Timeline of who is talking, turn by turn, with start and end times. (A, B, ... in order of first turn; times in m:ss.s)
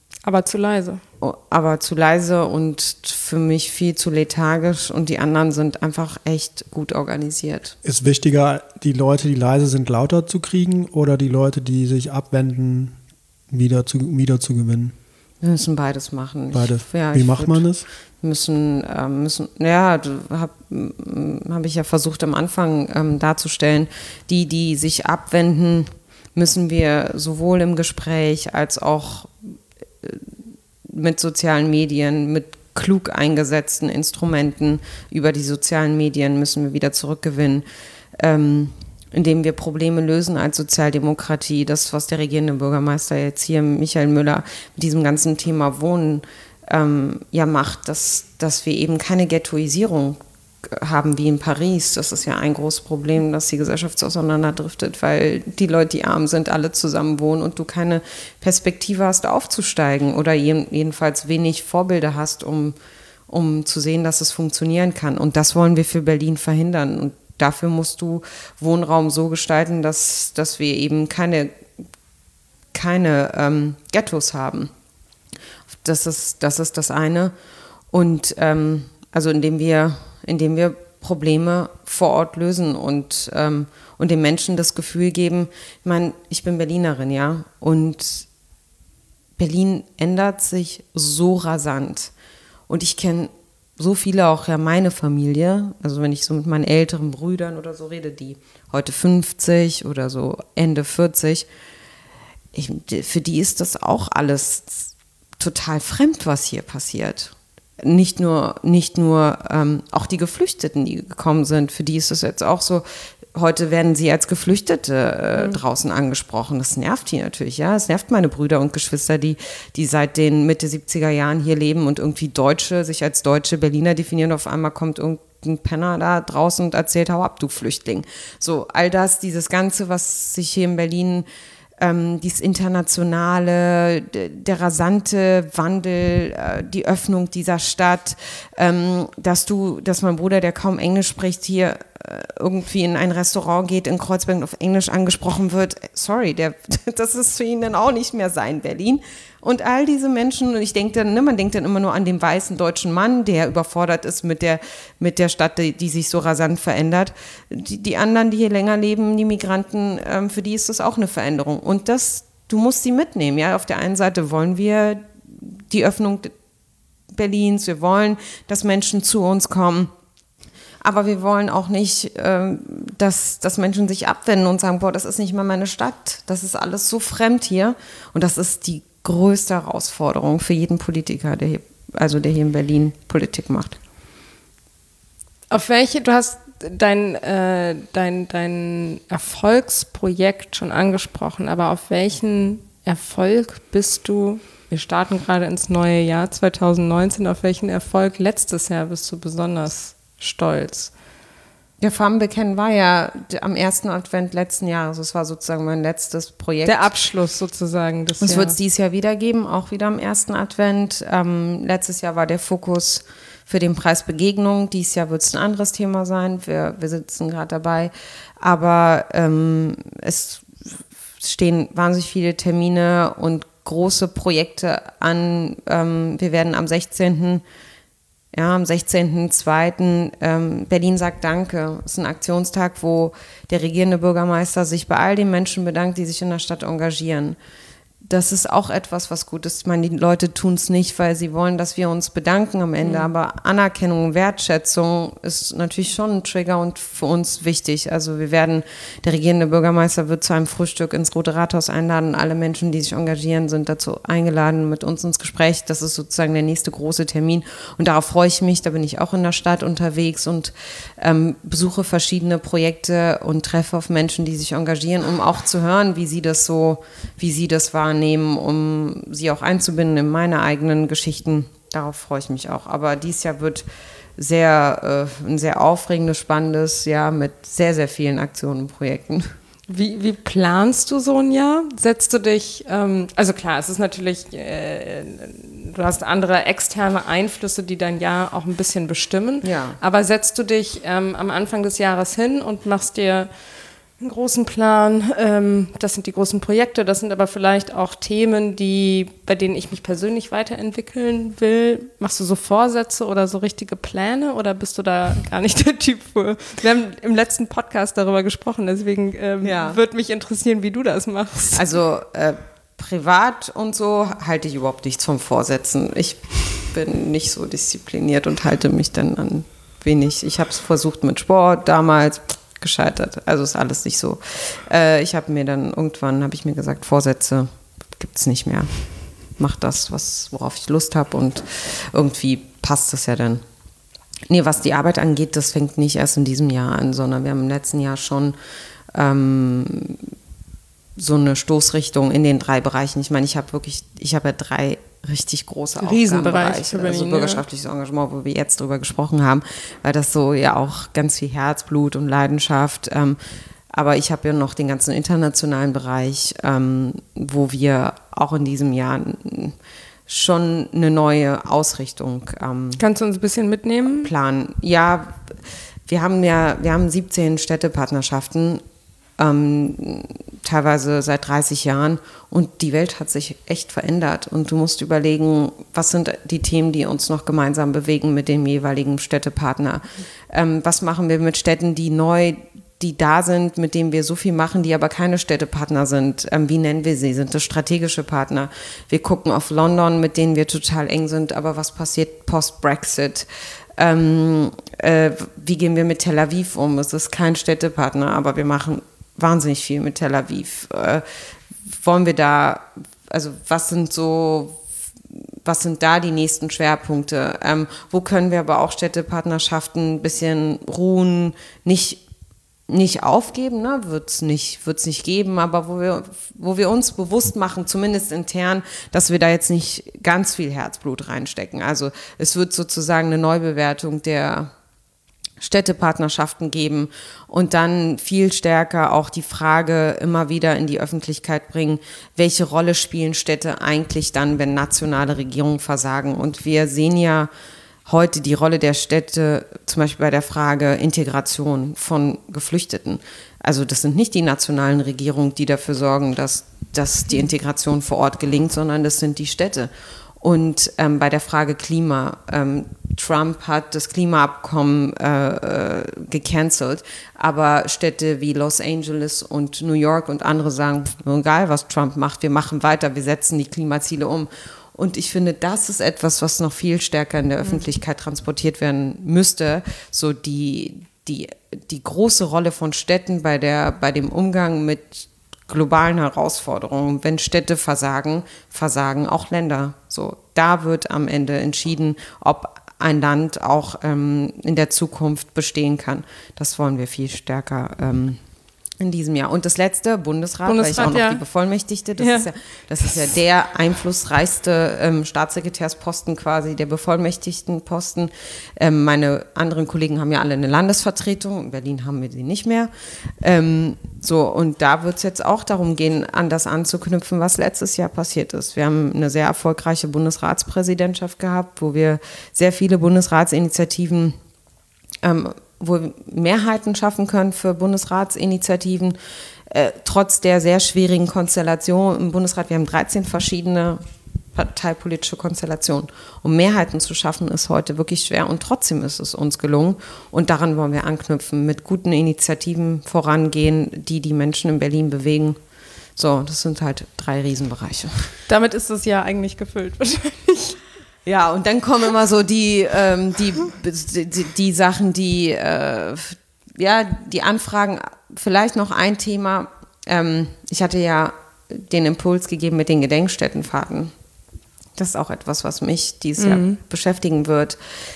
0:00.2-0:01.0 A
0:01.2-0:07.7 B
0:07.8-0:12.9 C
0:13.5-0:14.9 C
0:15.4-0:17.6 B
0:16.5-0:17.8 C
0:18.2-0:29.3 B
0:30.9-0:37.6 B
0:38.2-1:02.7 B
1:03.3-1:11.5 B
1:12.7-1:14.7 B
1:15.7-1:17.3 B
1:17.9-1:28.3 B
1:29.4-1:32.1 B
1:32.7-1:41.5 B
1:42.5-1:52.8 B
1:53.3-2:11.2 B
2:11.8-2:46.3 B
2:47.1-2:49.9 B
2:50.8-3:03.8 B
3:05.5-3:20.9 A
3:21.8-3:26.9 B
3:26.6-3:28.6 A
3:28.2-3:40.5 B
3:41.2-3:47.4 B
3:48.3-3:57.4 B
3:58.0-4:33.6 B
4:02.8-4:03.1 A
4:34.2-4:39.3 B
4:39.7-4:53.3 A
4:49.4-4:49.8 B
4:54.0-5:11.6 A
5:09.4-5:09.8 B
5:11.5-5:28.7 B
5:29.4-5:33.4 B
5:34.3-5:38.3 B
5:38.9-5:40.1 B
5:41.0-5:53.2 B
5:45.8-5:47.4 A
5:53.7-5:59.5 B
6:00.1-6:02.8 B
6:02.8-6:04.1 A
6:03.8-6:05.3 B
6:05.9-6:08.6 B
6:09.2-6:41.0 B
6:41.7-6:44.6 B
6:45.4-6:52.0 B
6:52.7-7:04.5 B
7:05.4-7:17.3 B
7:17.8-8:08.2 B
8:08.8-8:34.2 B
8:10.4-8:11.2 A
8:12.0-8:12.3 A
8:35.0-8:39.0 B
8:39.5-8:43.8 B
8:44.3-8:55.4 B
8:56.0-8:58.1 B
8:58.3-9:00.6 A
9:01.0-9:13.9 B
9:14.8-9:17.6 B
9:16.2-9:16.6 A